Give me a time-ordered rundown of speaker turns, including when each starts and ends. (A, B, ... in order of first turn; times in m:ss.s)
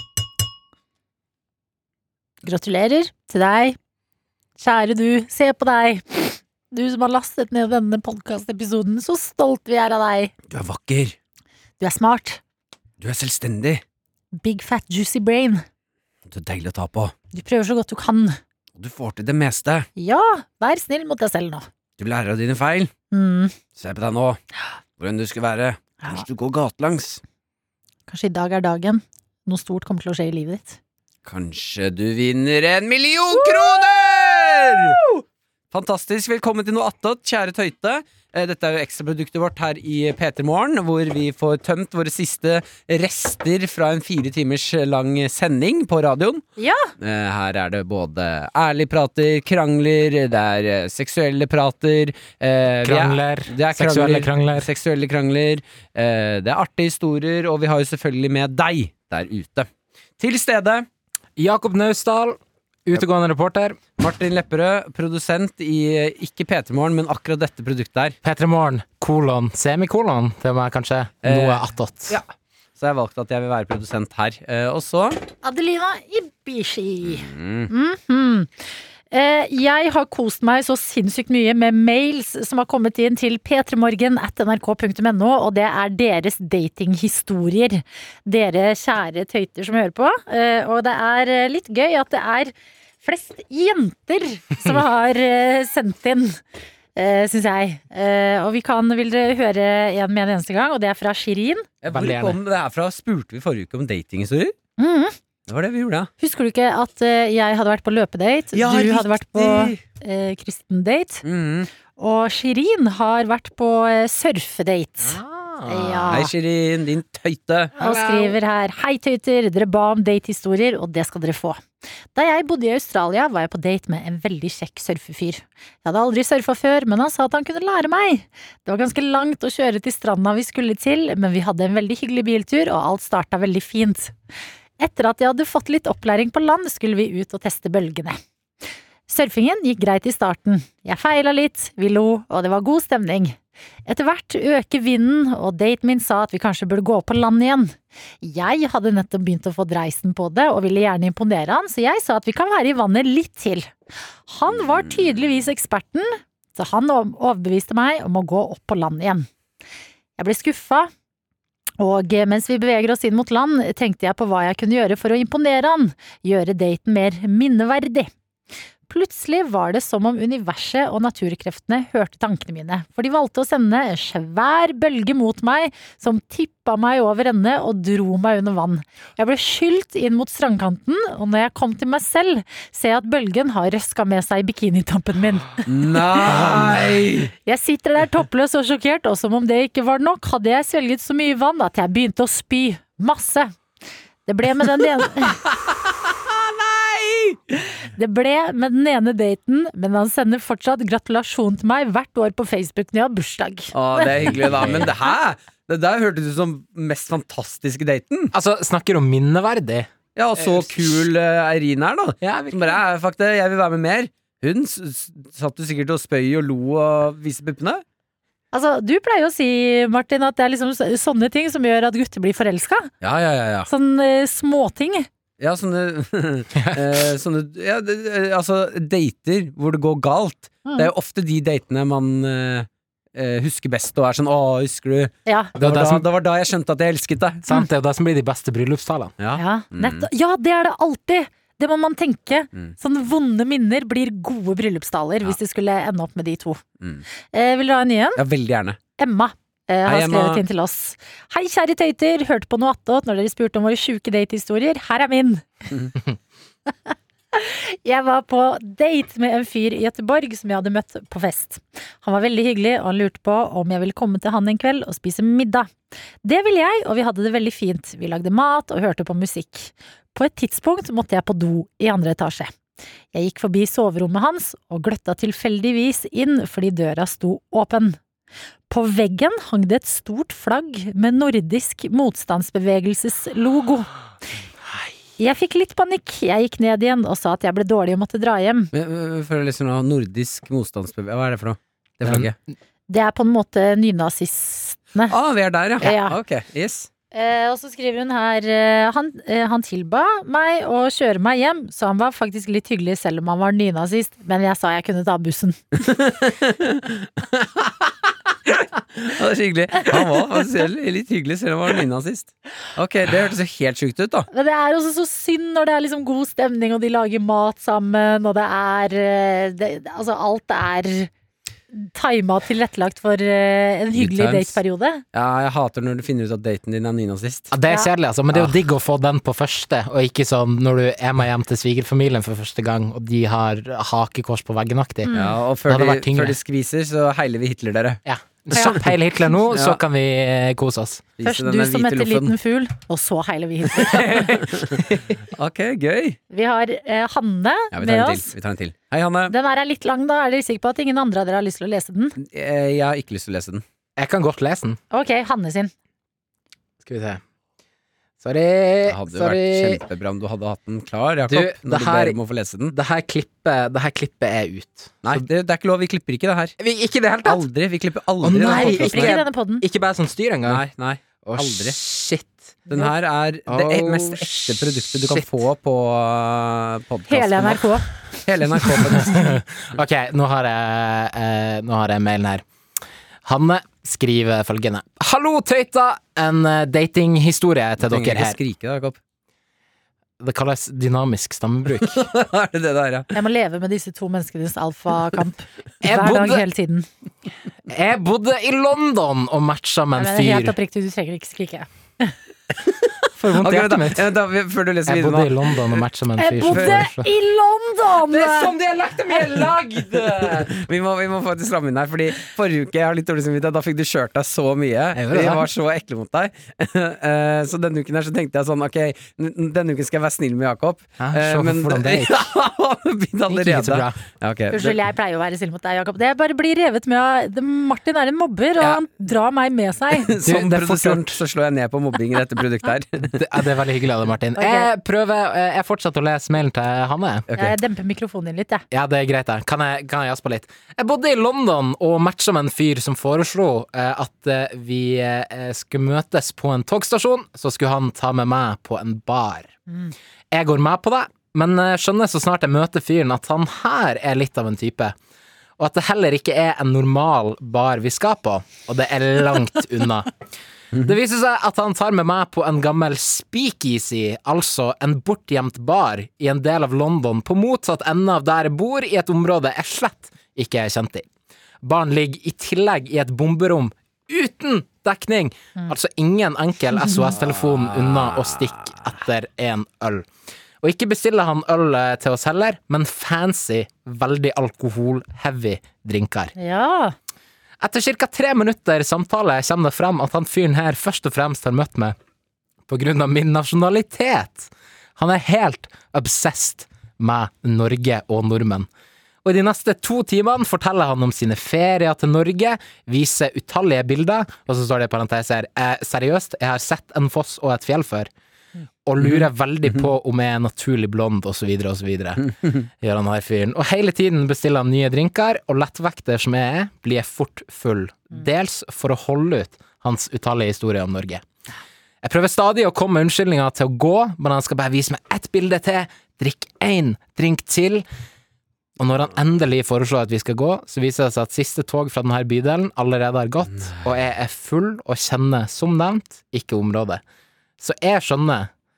0:02.4-0:03.8 A
0:04.6-0:10.3 A
0:10.5-0:11.2 B
0:11.8-0:12.4 A
0:13.0-0:13.8 B
0:14.4-0:15.6 A
0:16.3-0:17.1 B
0:17.3-0:18.4 A
0:18.8-0:19.9 B
0:20.0-0:21.7 A
0:22.0-0:22.9 B
0:23.1-0:23.6 A
0:23.8-0:24.4 B
0:25.0-0:27.2 B
0:28.1-0:30.8 A
0:31.2-0:35.0 B
0:35.7-0:46.4 B
0:46.6-0:46.9 A
0:47.0-0:59.7 B
0:52.8-0:54.7 C
1:00.2-1:00.9 B
1:01.4-1:03.9 C
1:04.0-1:08.2 B
1:08.2-1:12.2 C
1:11.2-1:15.2 B
1:15.4-1:18.5 A
1:17.0-1:17.7 B
1:19.1-1:36.4 A
1:37.0-1:41.7 A
1:41.8-1:44.6 B
1:41.9-1:42.4 C
1:44.8-1:45.2 A
1:45.5-1:46.1 B
1:46.2-1:51.2 A
1:48.5-1:49.8 B
1:51.2-1:51.7 B
1:52.0-1:56.3 A
1:55.0-1:56.2 C
1:56.1-1:58.2 B
1:57.8-2:01.6 A
2:02.2-2:14.1 A
2:14.8-2:18.2 A
2:19.1-2:33.7 A
2:34.3-2:39.3 A
2:40.2-2:40.9 A
2:41.8-2:48.1 A
2:48.9-3:05.7 A
3:05.7-3:07.3 B
3:07.4-3:13.5 A
3:14.3-3:15.4 A
3:15.2-3:17.4 B
3:18.0-3:24.1 A
3:23.7-3:28.3 B
3:24.4-3:24.9 C
3:28.3-3:31.0 C
3:30.2-3:37.8 B
3:32.2-3:32.8 C
3:38.5-3:42.9 A
3:43.0-3:43.7 B
3:43.7-3:45.1 A
3:45.4-3:57.4 B
3:46.6-3:47.1 C
3:50.6-3:50.9 A
3:55.3-3:55.5 A
3:55.6-3:56.1 C
3:57.4-3:59.1 C
3:59.2-4:00.1 B
3:59.4-4:06.6 A
4:07.3-4:08.2 A
4:08.2-4:08.8 B
4:09.0-4:15.4 A
4:09.9-4:10.4 B
4:16.9-4:25.7 A
4:26.2-4:32.5 A
4:33.1-4:38.0 A
4:38.7-4:43.9 A
4:45.2-4:48.7 A
4:48.7-4:52.4 B
4:52.9-4:55.1 A
4:55.1-4:56.9 B
4:55.8-4:56.2 A
4:57.1-5:05.8 A
5:05.8-5:14.3 B
5:14.3-5:21.1 A
5:21.7-5:25.0 A
5:24.0-5:24.6 B
5:25.1-5:27.5 B
5:27.5-5:35.1 C
5:35.0-5:35.4 A
5:35.1-5:38.0 B
5:35.7-5:36.4 C
5:38.0-5:41.1 C
5:38.5-5:38.8 B
5:38.5-5:38.8 A
5:39.5-5:39.8 B
5:41.2-5:42.3 B
5:41.2-5:44.5 A
5:43.7-5:46.2 B
5:46.3-5:48.3 A
5:47.7-5:49.3 B
5:49.3-5:52.2 A
5:52.2-5:53.6 B
5:54.0-5:54.8 C
5:54.9-5:55.7 A
5:56.8-5:57.2 C
5:58.2-5:59.8 C
5:58.9-6:02.8 B
6:01.3-6:02.2 C
6:02.7-6:05.3 C
6:05.0-6:06.6 B
6:06.6-6:07.5 C
6:07.2-6:09.2 B
6:08.2-6:10.6 C
6:08.4-6:09.6 A
6:10.5-6:11.8 B
6:11.2-6:12.9 C
6:12.7-6:19.4 B
6:13.5-6:15.4 C
6:17.1-6:17.9 A
6:18.8-6:22.4 C
6:23.2-6:28.4 C
6:27.8-6:29.0 B
6:30.2-6:32.1 C
6:31.8-6:33.1 B
6:33.1-6:36.9 A
6:35.8-6:36.4 C
6:37.7-6:40.6 C
6:40.0-6:42.1 A
6:43.2-6:44.1 C
6:43.3-6:45.8 B
6:44.9-6:47.1 C
6:46.2-6:48.5 A
6:46.5-6:46.8 B
6:48.1-7:04.8 B
6:48.7-6:50.5 C
6:55.0-6:55.5 C
7:01.0-7:02.1 C
7:03.3-7:04.0 C
7:04.5-7:10.2 A
7:09.9-7:13.3 B
7:10.2-7:11.2 C
7:13.0-7:17.4 C
7:14.4-7:14.7 A
7:17.4-7:18.6 A
7:18.7-7:29.5 C
7:30.3-7:35.0 C
7:35.6-7:40.1 C
7:40.7-7:51.1 C
7:51.6-8:00.1 C
7:57.2-7:58.7 B
8:00.6-8:06.3 C
8:06.4-8:06.9 A
8:07.6-8:12.0 C
8:12.7-8:18.7 C
8:19.2-8:28.1 C
8:28.8-8:32.3 C
8:29.0-8:29.3 B
8:32.8-8:41.2 C
8:42.0-8:47.8 C
8:48.8-8:57.0 C
8:57.6-8:58.5 C